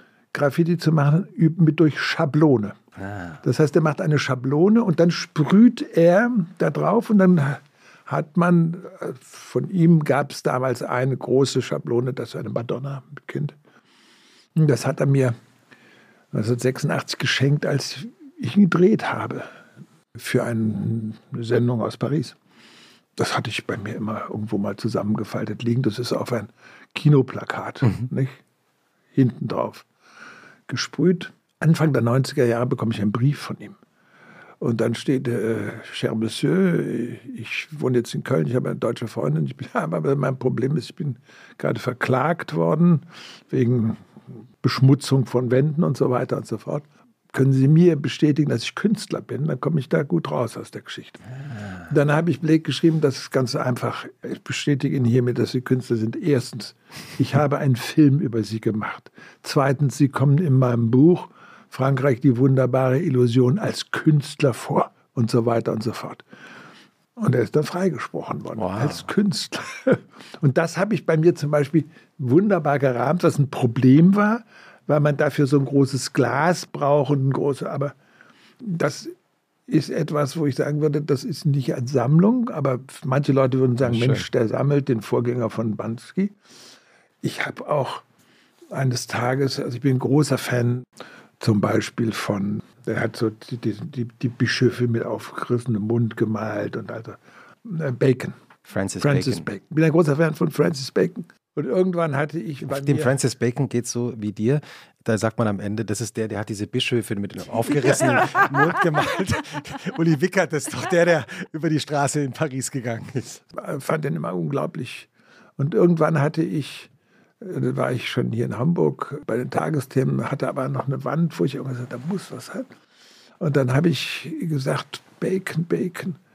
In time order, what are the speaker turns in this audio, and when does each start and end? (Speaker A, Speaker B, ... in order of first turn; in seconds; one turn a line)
Speaker A: 0.3-2.8
Speaker B: 3.0-3.4
Speaker A: 3.4-13.6
Speaker A: 14.6-15.3
Speaker A: 16.3-19.5
Speaker A: 20.1-22.4
Speaker A: 23.2-28.4
Speaker A: 29.1-29.9
Speaker A: 30.7-33.8
Speaker A: 34.6-44.0
Speaker A: 44.6-51.2
Speaker B: 51.4-51.9
Speaker A: 51.9-66.2
Speaker A: 67.2-77.9
Speaker B: 68.6-69.1
Speaker A: 78.6-79.1
Speaker A: 79.7-86.3
Speaker B: 83.8-84.3
Speaker A: 87.2-88.0
Speaker A: 88.7-90.9
Speaker A: 91.4-98.3
Speaker B: 98.7-99.5
Speaker A: 99.0-103.2
Speaker B: 102.6-113.4
Speaker A: 108.0-108.5
Speaker A: 113.5-116.9
Speaker A: 117.4-122.7
Speaker A: 123.4-126.2